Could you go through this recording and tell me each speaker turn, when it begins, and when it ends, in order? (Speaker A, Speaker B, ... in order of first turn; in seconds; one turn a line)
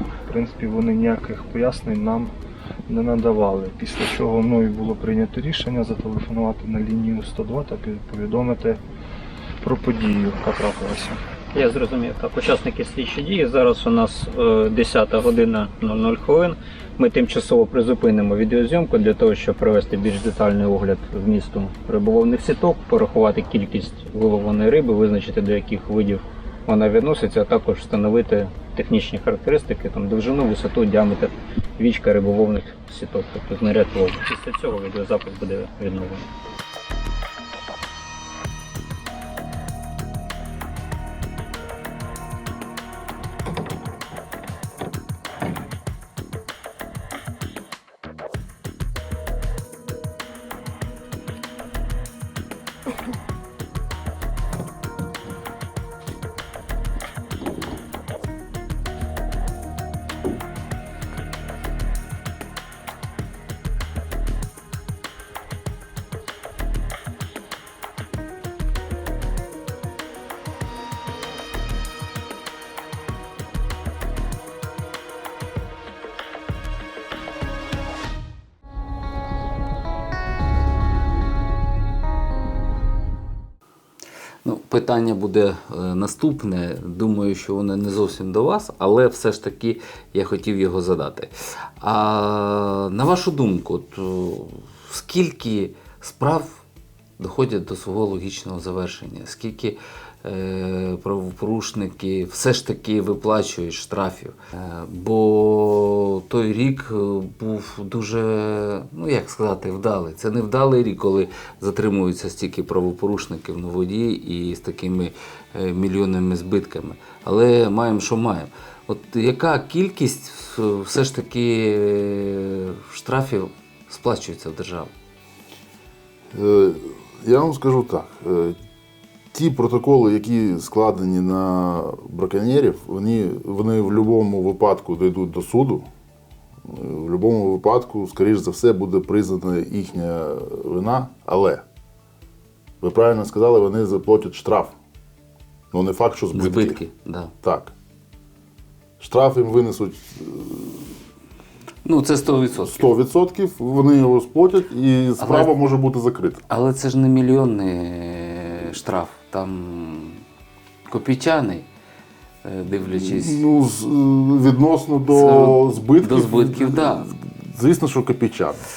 Speaker A: 0.3-2.3
Speaker A: 2.9-8.8
Speaker A: 9.6-11.2
Speaker B: 11.5-36.3
Speaker C: 84.5-91.3
Speaker C: 91.8-96.6
Speaker C: 97.2-124.9
Speaker D: 126.3-128.6
Speaker D: 129.3-135.9
Speaker D: 136.6-141.6
Speaker D: 142.8-144.7
Speaker D: 145.7-146.8
Speaker C: 146.3-147.3
Speaker D: 147.4-147.7
Speaker D: 149.0-150.9
Speaker C: 151.8-152.9
Speaker D: 152.6-156.4
Speaker C: 155.2-155.5
Speaker C: 156.5-160.2
Speaker C: 160.9-161.7
Speaker C: 162.4-163.4
Speaker D: 162.9-168.6
Speaker C: 165.1-167.1